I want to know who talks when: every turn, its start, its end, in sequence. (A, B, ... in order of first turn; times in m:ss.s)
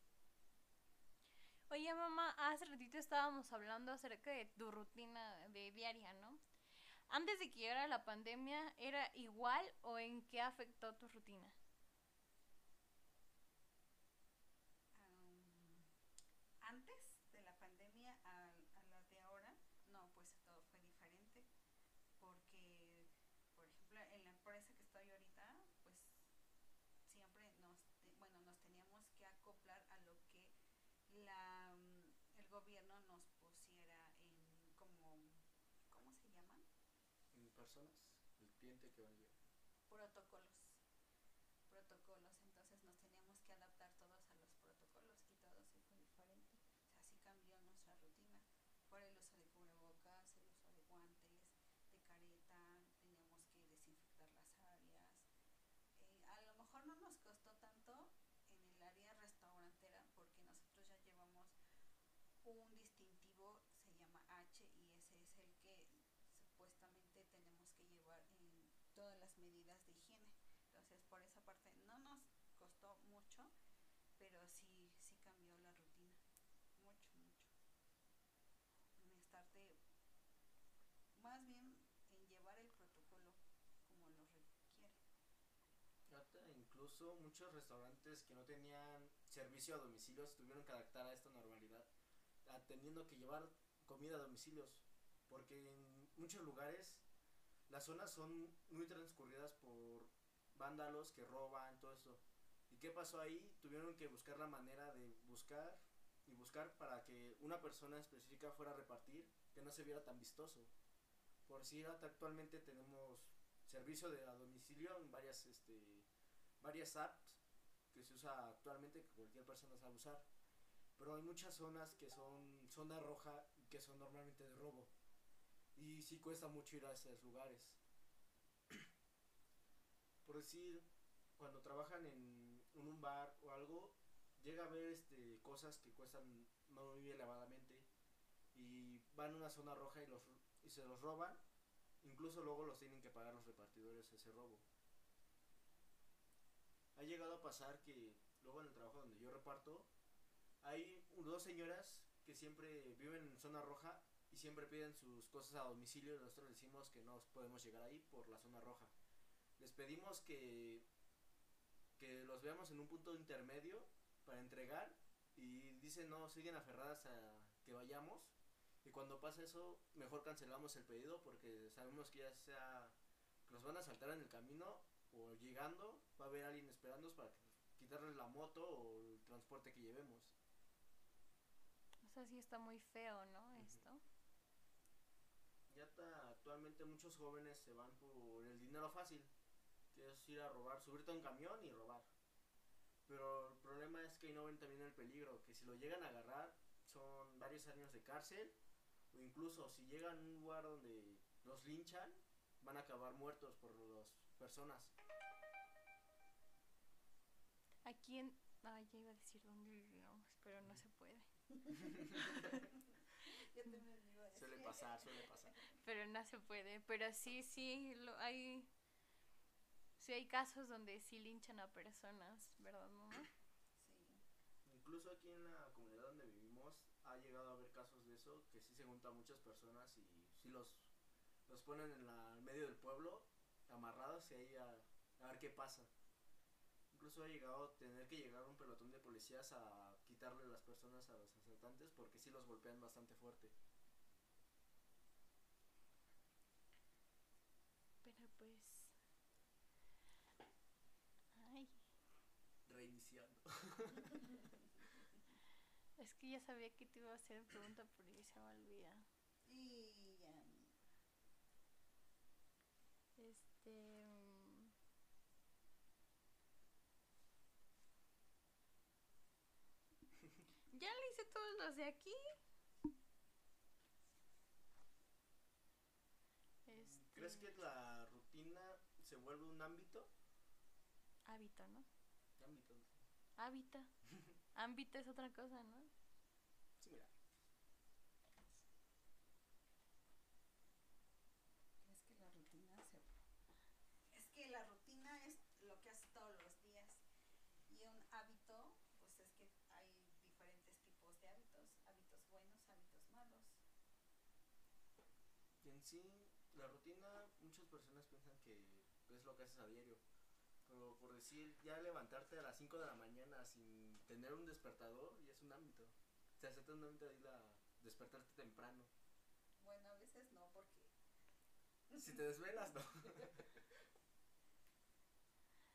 0:01.7-0:06.4 A
0:07.1-0:11.6 A
0:14.9-0:15.9 B
0:16.6-0:21.5 B
0:22.2-0:26.3 B
0:27.0-0:30.5 B
0:31.1-0:36.7 B
0:37.3-0:39.3 C
0:39.9-0:40.8 B
0:41.7-0:55.3 B
0:55.9-1:01.5 B
1:02.4-1:13.5 B
1:14.2-1:16.2 B
1:16.8-1:17.5 B
1:19.0-1:19.8 B
1:21.1-1:25.0 B
1:26.1-1:31.9 C
1:32.4-1:37.0 C
1:37.7-1:50.7 C
1:51.4-1:56.1 C
1:56.6-1:57.4 C
1:57.9-2:00.3 C
2:01.0-2:04.9 C
2:05.8-2:07.8 C
2:10.2-2:10.8 C
2:11.4-2:17.9 C
2:18.5-2:21.4 C
2:22.0-2:24.6 C
2:26.9-2:29.9 C
2:30.6-2:38.9 C
2:39.6-2:40.8 C
2:42.0-3:00.3 C
3:02.0-3:04.0 A
3:03.5-3:03.8 C
3:05.7-3:09.3 C
3:09.9-3:12.1 C
3:13.1-3:18.6 C
3:19.1-3:24.9 C
3:27.8-3:31.3 A
3:31.5-3:35.6 B
3:32.1-3:32.5 C
3:34.3-3:35.6 C
3:35.8-3:38.7 A
3:40.0-3:43.3 A
3:43.8-3:44.2 B
3:44.6-3:50.9 C
3:51.5-3:55.9 C
3:56.9-4:03.5 C
4:08.0-4:08.9 A
4:11.3-4:11.8 A
4:12.6-4:14.3 C
4:14.3-4:14.8 B
4:16.0-4:19.0 A
4:19.4-4:20.8 B
4:23.2-4:24.7 A
4:30.7-4:32.4 A
4:36.6-4:37.5 A
4:36.7-4:40.1 C
4:41.2-4:41.9 A
4:42.4-4:43.0 C
4:43.4-4:43.9 A
4:44.5-4:45.9 A
4:46.8-4:47.1 C
4:51.8-4:53.1 B
4:54.1-4:57.0 B
4:57.7-5:03.6 B
5:05.6-5:10.0 C
5:10.6-5:18.9 C
5:19.6-5:20.9 B
5:21.9-5:23.3 B
5:22.0-5:23.6 C